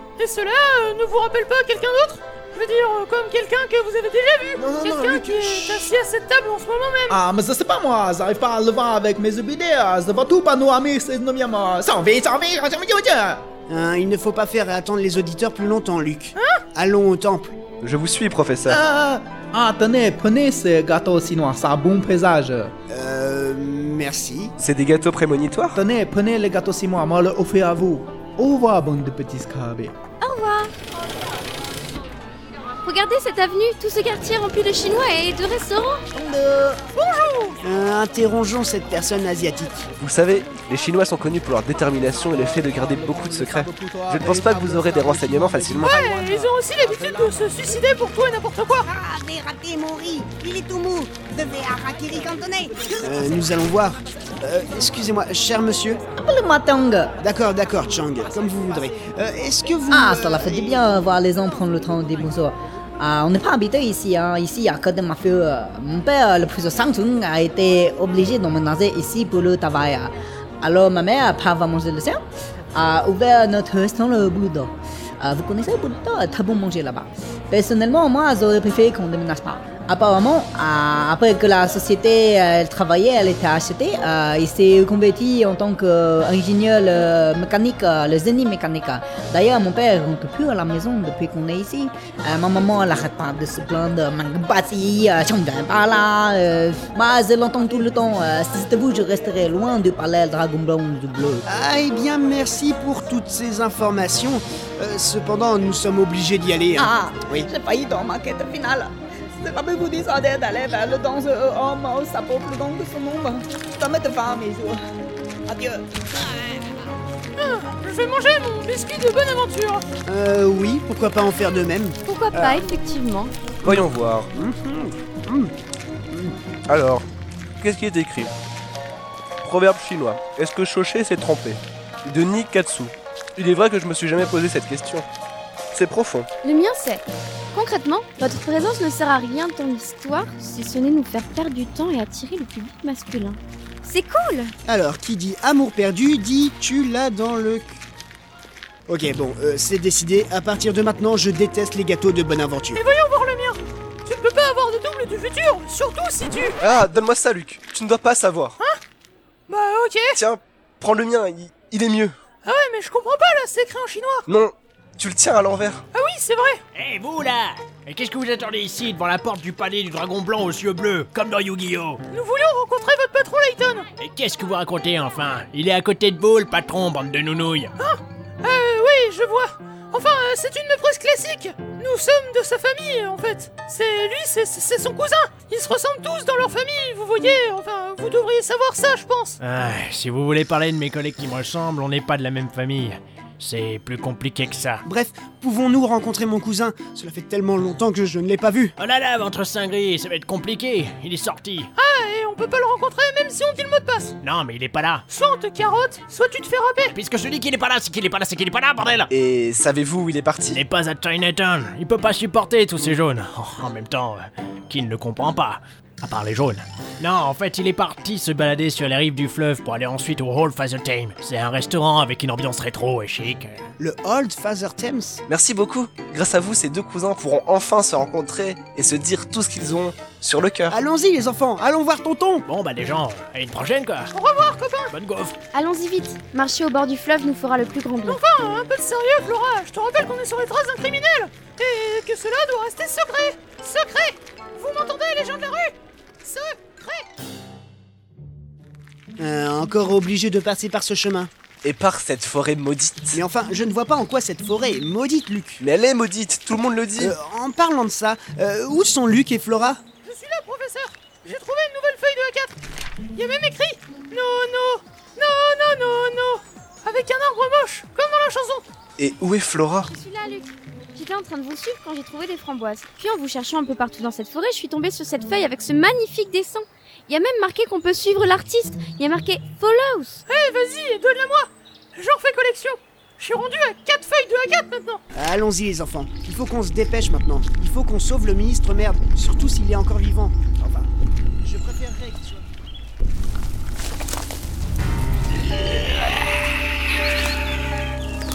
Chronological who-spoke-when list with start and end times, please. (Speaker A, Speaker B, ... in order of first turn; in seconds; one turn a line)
Speaker A: 0.2-7.2
Speaker B: 4.6-5.9
Speaker C: 7.1-13.4
Speaker B: 13.7-17.5
Speaker A: 16.4-16.6
Speaker D: 17.8-18.8
Speaker C: 18.7-22.7
Speaker B: 22.9-24.5
Speaker D: 24.6-25.8
Speaker C: 25.7-29.9
Speaker E: 30.2-30.7
Speaker E: 32.8-36.0
Speaker F: 36.2-36.7
Speaker A: 36.9-37.6
Speaker B: 37.6-39.9
Speaker D: 40.0-45.9
Speaker C: 42.4-48.0
Speaker A: 45.8-48.9
Speaker G: 48.8-53.0
Speaker B: 53.0-56.1
Speaker F: 56.1-57.1
Speaker B: 57.2-60.8
Speaker F: 59.9-72.2
Speaker F: 72.7-101.4
Speaker B: 101.5-107.5
Speaker F: 106.8-114.8
Speaker F: 115.5-115.8
Speaker A: 117.3-119.8
Speaker B: 120.0-122.7
Speaker E: 122.0-123.3
Speaker D: 123.6-124.3
Speaker B: 123.7-125.5
Speaker D: 126.7-127.0
Speaker D: 127.6-128.3
Speaker D: 129.4-135.0
Speaker D: 135.7-136.3
Speaker E: 136.4-144.5
Speaker B: 144.7-147.8
Speaker B: 148.9-152.8
Speaker A: 152.7-156.6
Speaker D: 156.6-158.6
Speaker A: 159.5-160.2
Speaker D: 160.1-162.1
Speaker A: 162.4-164.3
Speaker D: 164.3-165.8
Speaker A: 165.9-166.6
Speaker H: 166.7-172.0
Speaker A: 172.1-173.9
Speaker H: 174.0-177.7
Speaker A: 177.8-189.4
Speaker H: 189.4-194.8
Speaker B: 194.8-198.7
Speaker H: 198.8-201.7
Speaker A: 201.8-204.1
Speaker H: 204.2-205.0
Speaker A: 205.1-206.9
Speaker H: 206.9-209.1
Speaker D: 209.1-210.6
Speaker H: 210.5-223.7
Speaker B: 223.8-225.2
Speaker D: 225.3-230.8
Speaker B: 230.7-232.4
Speaker H: 232.4-234.1
Speaker A: 234.1-234.9
Speaker H: 234.9-235.4
Speaker E: 235.5-238.2
Speaker A: 238.1-247.1
Speaker B: 249.2-251.3
Speaker D: 251.6-253.2
Speaker B: 253.1-255.6
Speaker D: 255.6-257.1
Speaker B: 257.0-259.8
Speaker A: 260.0-262.5
Speaker A: 263.1-268.6
Speaker D: 269.0-269.9
Speaker E: 269.9-280.2
Speaker A: 280.3-285.0
Speaker B: 285.1-290.9
Speaker B: 291.4-292.6